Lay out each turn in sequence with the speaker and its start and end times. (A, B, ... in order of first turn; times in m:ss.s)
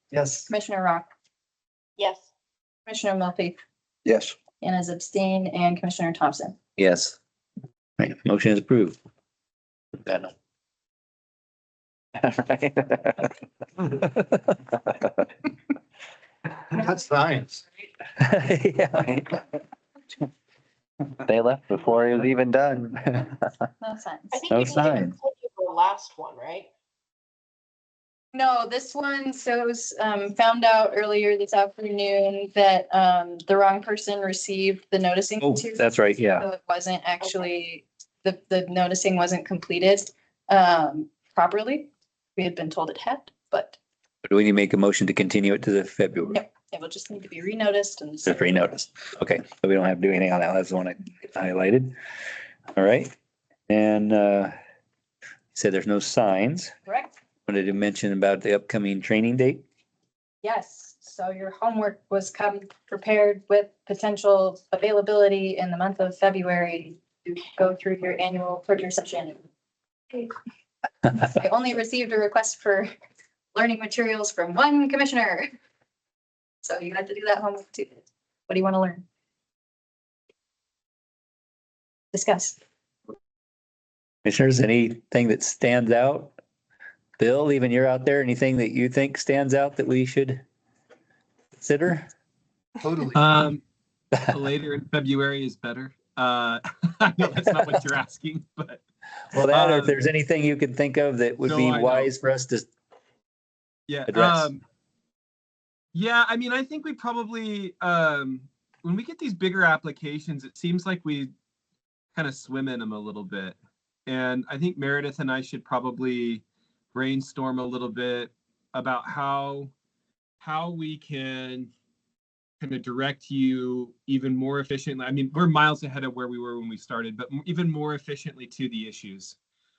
0:00.1-0:00.5 A
0:00.5-0:01.1 B
0:02.0-0:02.3 C
0:02.8-0:03.6 B
0:04.0-0:04.3 A
0:04.6-0:06.6 B
0:06.8-0:07.1 D
0:08.0-0:09.0 E
0:10.0-0:10.3 E
0:12.2-0:13.2 D
0:13.9-0:14.4 E
0:16.7-0:17.6 A
0:18.2-0:19.4 E
0:21.2-0:23.1 D
0:23.8-0:24.4 B
0:24.3-0:26.7 C
0:24.5-0:25.1 E
0:28.3-0:35.8 B
0:35.4-0:36.4 E
0:36.4-0:43.8 B
0:37.2-0:37.5 C
0:44.2-0:46.4 E
0:46.3-0:48.6 B
0:48.2-0:51.9 E
0:52.7-0:53.1 E
0:53.7-0:54.5 E
0:55.5-0:56.7 E
0:56.9-0:57.1 B
0:57.5-0:59.6 E
1:00.4-1:09.4 B
1:11.1-1:12.9 B
1:13.5-1:15.5 B
1:16.6-1:19.0 B
1:22.1-1:22.6 B
1:24.2-1:26.3 E
1:27.2-1:30.4 E
1:31.6-1:32.1 E
1:32.8-1:33.4 A
1:33.1-1:33.6 F
1:34.1-1:38.8 F
1:39.3-1:42.6 E
1:39.4-1:40.0 F
1:41.4-1:42.1 F
1:43.9-1:44.6 F
1:44.1-1:44.5 E
1:45.9-1:51.3 F
1:52.1-1:59.7 F
2:00.4-2:01.7 F
2:02.6-2:09.4 F